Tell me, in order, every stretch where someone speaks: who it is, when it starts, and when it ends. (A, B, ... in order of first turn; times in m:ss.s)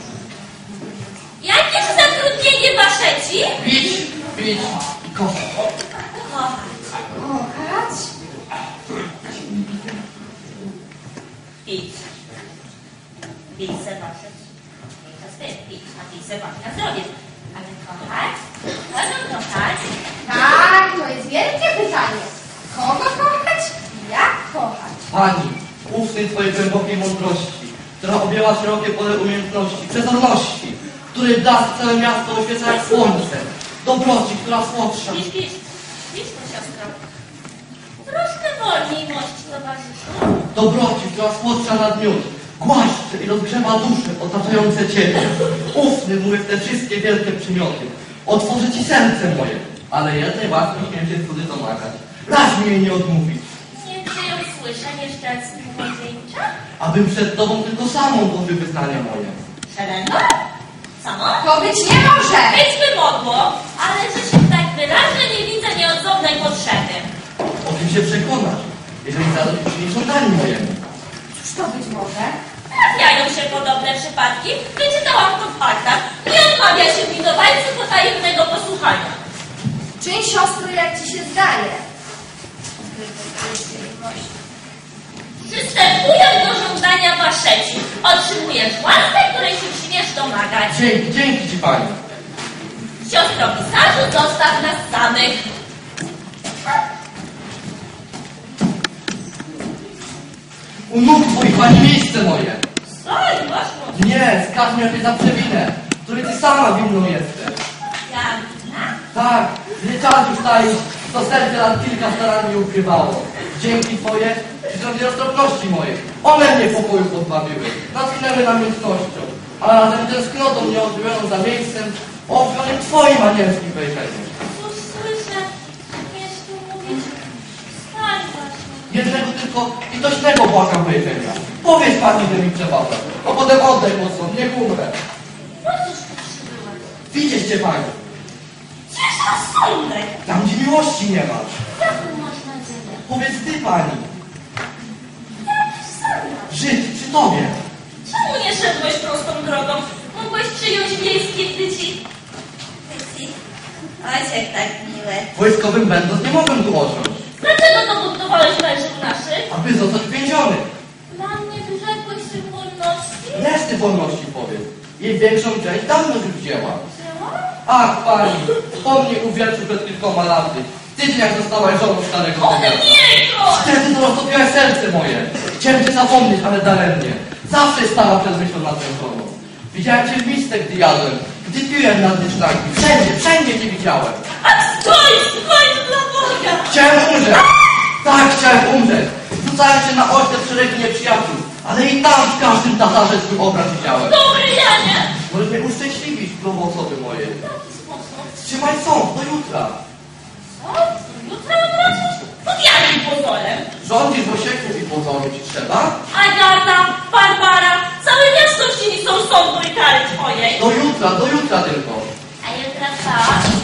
0:01.4-0:03.6 A
0:03.6-0:05.6 B
0:06.2-0:06.8 A
0:07.2-0:08.1 C
0:11.6-0:12.1 A
0:13.5-0:14.4 A
0:15.0-0:18.4 A
0:18.9-0:19.9 A
0:20.2-0:25.1 C
0:25.1-0:35.2 B
0:32.7-0:33.2 A
0:35.0-0:37.0 A
0:38.0-0:40.5 A
0:40.5-0:53.5 B
0:53.7-0:56.5 A
0:56.8-0:59.4 B
0:59.7-1:00.4 A
1:01.0-1:01.5 A
1:01.4-1:02.6 C
1:02.5-1:07.1 A
1:07.6-1:10.8 B
1:11.4-1:12.4 C
1:12.7-1:19.2 A
1:20.0-1:21.8 C
1:22.8-1:24.3 C
1:25.4-1:30.8 A
1:30.7-1:32.0 B
1:33.0-1:35.5 A
1:40.9-1:42.6 B
1:42.9-1:44.0 A
1:43.9-1:47.6 B
1:48.0-1:49.0 A
1:49.1-2:04.4 B
2:04.5-2:07.2 A
2:07.9-2:09.0 A
2:08.9-2:15.0 B
2:15.6-2:16.9 A
2:17.1-2:18.0 B
2:18.9-2:20.2 A
2:20.2-2:21.6 B
2:21.8-2:23.0 A
2:23.1-2:24.1 B
2:25.9-2:26.4 A
2:26.5-2:27.6 B
2:28.0-2:32.0 A
2:32.9-2:33.4 A
2:34.0-2:35.3 A
2:35.3-2:37.2 B
2:37.4-2:39.5 A
2:39.5-2:40.7 B
2:41.1-2:43.5 A
2:43.3-2:46.8 B
2:46.8-2:47.5 A
2:47.7-2:52.9 B
2:52.4-2:53.8 A
2:53.5-3:04.2 B
3:04.4-3:06.8 A
3:06.7-3:07.4 B
3:08.0-3:14.2 B
3:14.0-3:15.1 A
3:15.3-3:17.4 B
3:17.4-3:18.4 A
3:18.4-3:19.8 B
3:20.6-3:23.7 A
3:23.8-3:26.0 B
3:26.1-3:30.6 A
3:30.6-3:32.1 B
3:32.4-3:33.5 A